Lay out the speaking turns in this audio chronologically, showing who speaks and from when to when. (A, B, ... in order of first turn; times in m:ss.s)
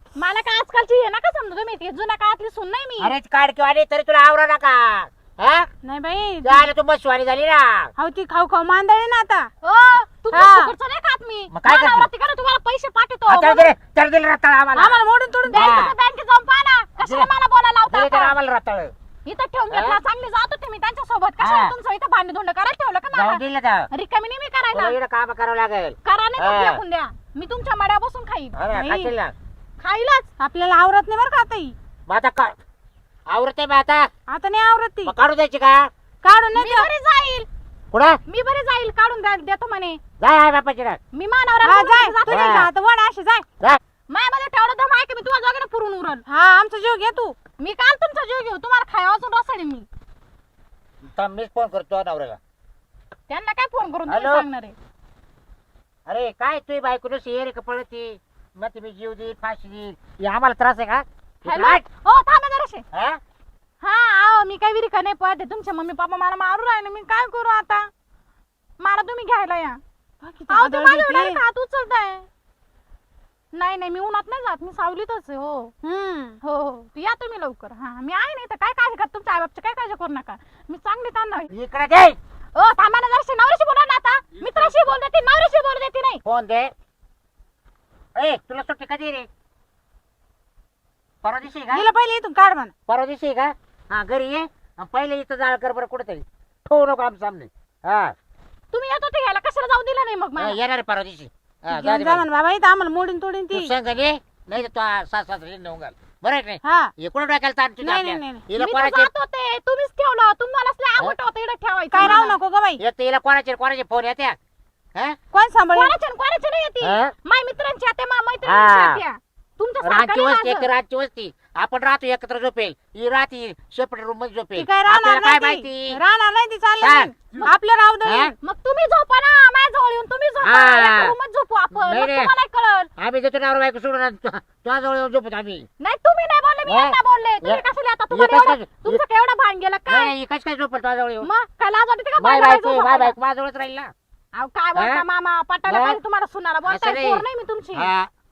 0:00.2-0:03.1 A
0:03.0-0:05.7 B
0:05.8-0:06.6 C
0:06.4-0:07.9 B
0:08.0-0:09.5 C
0:09.6-0:13.7 A
0:10.3-0:10.7 C
0:11.5-0:12.1 B
0:13.3-0:15.0 B
0:14.7-0:15.7 C
0:15.5-0:18.3 A
0:15.5-0:15.9 B
0:17.0-0:17.3 B
0:17.9-0:18.9 B
0:19.2-0:25.0 A
0:19.7-0:20.0 B
0:21.4-0:21.7 B
0:23.1-0:23.9 B
0:24.7-0:26.8 B
0:26.0-0:28.6 A
0:28.6-0:29.3 B
0:28.7-0:29.2 C
0:29.8-0:30.3 A
0:30.4-0:31.7 C
0:32.1-0:32.6 B
0:33.3-0:34.1 B
0:34.3-0:35.1 C
0:35.0-0:35.9 B
0:36.2-0:36.9 C
0:36.5-0:37.5 A
0:37.9-0:38.2 B
0:38.3-0:40.0 A
0:40.2-0:41.0 B
0:41.1-0:42.6 A
0:41.6-0:43.4 C
0:42.3-0:42.7 B
0:44.1-0:46.2 A
0:46.3-0:47.4 C
0:47.6-0:49.9 A
0:51.0-0:52.4 B
0:53.3-0:54.8 A
0:54.1-0:54.4 B
0:56.1-1:01.8 B
1:01.4-1:02.8 A
1:02.9-1:03.2 B
1:03.8-1:07.9 A
1:08.8-1:09.8 A
1:10.2-1:11.4 C
1:10.5-1:12.2 A
1:13.5-1:15.7 A
1:15.8-1:16.4 C
1:16.4-1:21.5 A
1:21.5-1:22.2 B
1:22.5-1:26.2 A
1:26.2-1:26.7 B
1:28.2-1:29.3 B
1:31.2-1:31.9 B
1:31.7-1:32.7 C
1:32.9-1:38.1 B
1:38.7-1:40.6 A
1:40.4-1:42.2 B
1:41.7-1:43.7 C
1:43.5-1:49.1 B
1:46.6-1:46.9 C
1:47.8-1:48.4 C
1:48.5-1:52.4 A
1:51.9-1:52.8 C
1:52.8-1:54.4 B
1:55.3-1:55.9 C
1:55.7-2:00.7 A
1:56.8-1:57.1 B
1:58.4-1:59.0 B
1:59.8-2:06.0 B
2:04.6-2:08.3 C
2:06.8-2:07.2 B
2:08.0-2:08.3 B
2:08.4-2:12.9 A
2:10.4-2:11.1 B
2:11.7-2:12.3 B
2:13.0-2:15.7 B
2:15.8-2:20.1 A
2:16.6-2:19.0 B
2:19.9-2:21.3 B
2:21.2-2:23.1 A
2:22.2-2:23.9 B
2:24.3-2:27.9 A
2:24.7-2:25.0 B
2:25.7-2:26.0 B
2:26.6-2:28.1 B